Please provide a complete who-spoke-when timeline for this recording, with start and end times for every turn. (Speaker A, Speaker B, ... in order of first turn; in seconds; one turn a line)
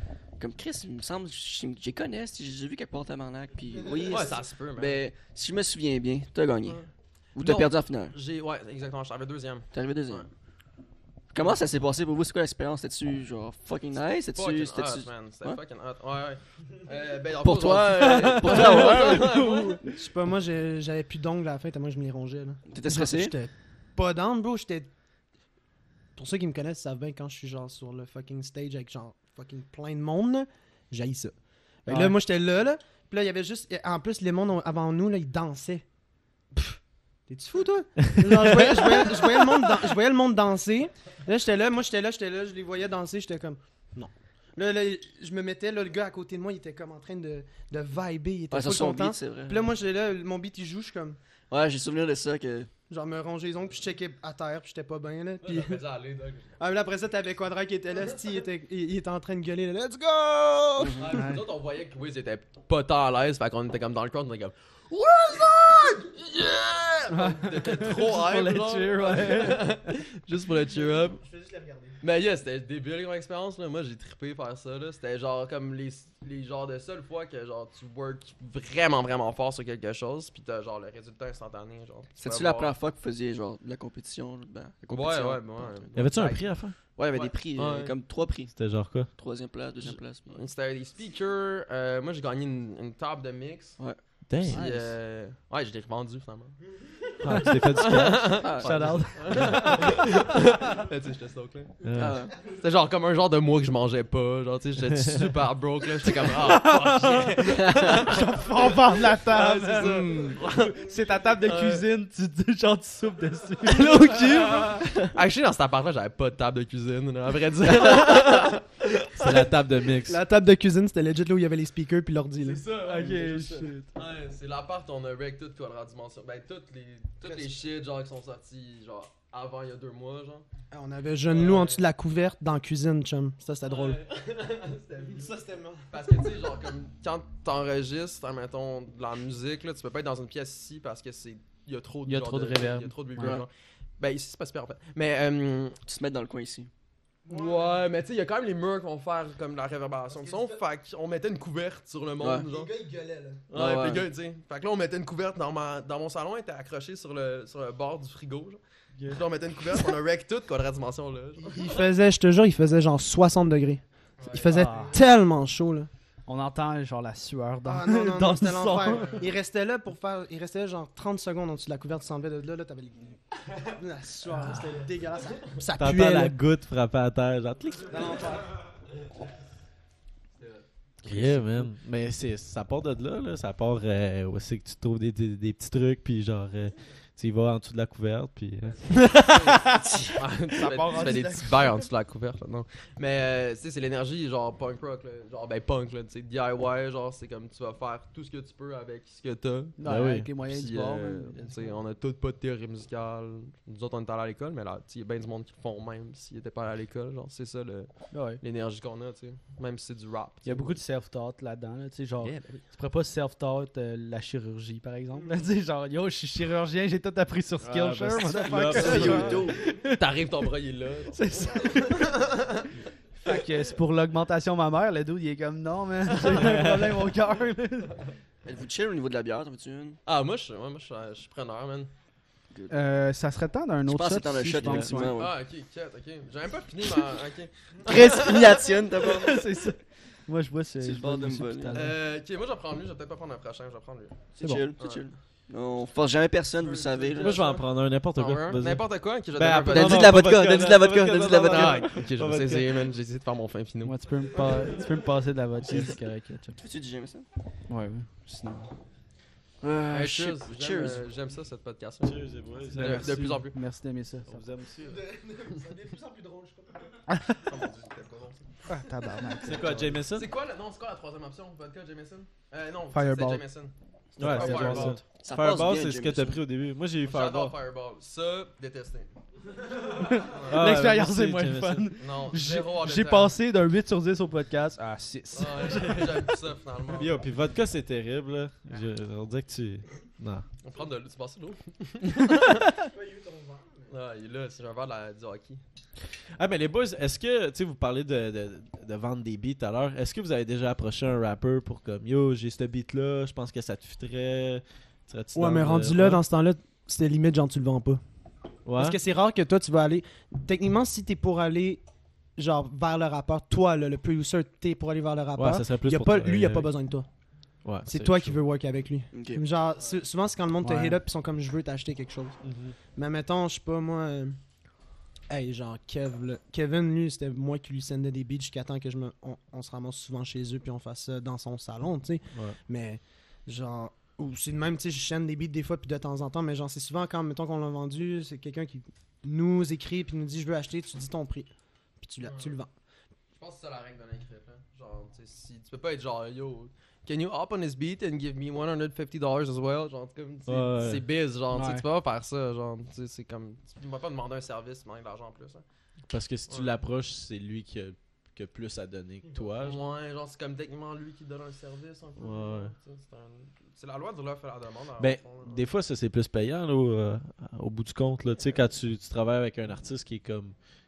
Speaker A: 0.4-6.8
Speaker B: 3.8-4.3
Speaker C: 4.1-5.0
Speaker A: 7.4-8.2
Speaker C: 7.4-10.3
Speaker A: 9.7-10.3
Speaker A: 11.3-15.6
Speaker C: 14.3-19.8
Speaker A: 17.4-19.4
Speaker D: 18.5-19.8
Speaker B: 19.9-24.9
Speaker A: 22.7-23.3
Speaker B: 26.2-35.9
Speaker D: 31.9-32.2
Speaker B: 36.5-51.2
Speaker A: 48.5-49.7
Speaker A: 51.5-52.7
Speaker B: 52.9-55.8
Speaker C: 55.4-56.5
Speaker B: 56.6-61.2
Speaker A: 60.8-61.1
Speaker C: 61.0-71.2
Speaker D: 61.2-61.4
Speaker D: 67.1-69.9
Speaker B: 70.7-72.0
Speaker C: 72.0-82.8
Speaker A: 82.2-86.2
Speaker C: 84.9-88.0
Speaker E: 86.0-86.8
Speaker A: 86.8-90.4
Speaker E: 88.5-89.1
Speaker C: 89.8-96.7
Speaker A: 93.8-94.1
Speaker E: 94.2-94.7
Speaker D: 94.5-94.9
Speaker E: 97.2-98.5
Speaker C: 97.4-111.9
Speaker A: 98.3-99.1
Speaker D: 98.6-100.4
Speaker E: 101.8-102.2
Speaker A: 102.0-102.4
Speaker D: 106.4-114.9
Speaker A: 107.6-107.9
Speaker A: 109.9-110.3
Speaker C: 113.6-119.5
Speaker E: 119.2-120.2
Speaker B: 120.0-122.6
Speaker C: 122.4-130.5
Speaker D: 122.8-123.9
Speaker B: 127.2-127.6
Speaker B: 130.7-134.0
Speaker C: 131.3-131.8
Speaker C: 133.7-135.4
Speaker B: 135.1-135.8
Speaker C: 135.9-145.8
Speaker D: 142.1-143.4
Speaker A: 143.2-143.4
Speaker A: 145.9-146.7
Speaker B: 147.3-147.8
Speaker C: 147.3-152.7
Speaker B: 150.1-150.6
Speaker A: 152.2-152.5
Speaker B: 152.5-153.4
Speaker C: 153.5-161.8
Speaker A: 153.5-154.1
Speaker B: 161.4-165.9
Speaker C: 164.2-164.9
Speaker D: 164.4-165.0
Speaker D: 166.3-169.2
Speaker B: 167.7-176.3
Speaker C: 168.9-169.2
Speaker E: 175.8-178.3
Speaker B: 177.9-178.6
Speaker C: 180.4-181.4
Speaker E: 181.0-189.3
Speaker C: 189.1-189.6
Speaker D: 189.7-191.8
Speaker C: 190.2-199.8
Speaker D: 199.8-201.7
Speaker E: 199.8-200.3
Speaker C: 200.5-210.8
Speaker D: 208.1-208.4
Speaker D: 210.4-220.0
Speaker C: 212.3-212.6
Speaker E: 217.6-219.5
Speaker A: 218.7-219.6
Speaker C: 219.8-222.7
Speaker D: 221.1-222.2
Speaker D: 223.2-228.0
Speaker E: 226.3-227.0
Speaker A: 228.4-230.0
Speaker C: 230.1-231.9
Speaker D: 232.7-235.2
Speaker A: 233.9-235.4
Speaker E: 234.6-234.9
Speaker C: 235.2-239.2
Speaker A: 237.9-239.4
Speaker D: 239.0-241.9
Speaker A: 240.8-241.9
Speaker C: 241.7-245.1
Speaker A: 244.4-247.4
Speaker D: 244.4-244.7
Speaker C: 246.6-250.2
Speaker E: 247.2-252.9
Speaker A: 249.7-252.1
Speaker C: 251.4-254.3
Speaker D: 253.8-256.6
Speaker A: 256.6-257.3
Speaker D: 257.7-258.7
Speaker A: 259.6-261.1
Speaker C: 259.9-263.6
Speaker E: 262.0-263.4
Speaker D: 262.8-264.4
Speaker E: 264.3-265.1
Speaker B: 264.9-266.9
Speaker D: 267.1-267.4
Speaker C: 267.4-268.4
Speaker D: 268.7-269.9
Speaker E: 269.4-270.3
Speaker C: 269.7-275.0
Speaker D: 272.9-273.4
Speaker D: 274.2-275.0
Speaker E: 274.2-277.5
Speaker A: 275.1-276.4
Speaker C: 277.0-279.1
Speaker D: 279.9-286.2
Speaker C: 280.3-280.6
Speaker E: 280.5-281.9
Speaker C: 282.0-283.4
Speaker C: 285.4-287.2
Speaker E: 286.9-290.5
Speaker C: 290.6-292.7
Speaker B: 292.9-293.9
Speaker C: 293.9-295.6
Speaker E: 296.4-306.2
Speaker B: 305.3-308.0
Speaker E: 308.7-309.0
Speaker B: 308.8-311.8
Speaker B: 312.4-317.1
Speaker E: 315.4-316.7
Speaker E: 317.6-318.4
Speaker B: 317.8-322.4
Speaker A: 319.1-319.4
Speaker D: 320.6-321.0
Speaker E: 322.4-322.8
Speaker B: 322.9-324.4
Speaker B: 325.3-342.7
Speaker C: 342.2-342.6
Speaker C: 343.4-355.6
Speaker E: 350.5-351.0
Speaker D: 351.5-351.8
Speaker E: 356.1-359.9
Speaker C: 356.5-356.8
Speaker C: 359.6-365.6
Speaker E: 362.2-362.7
Speaker E: 365.0-370.6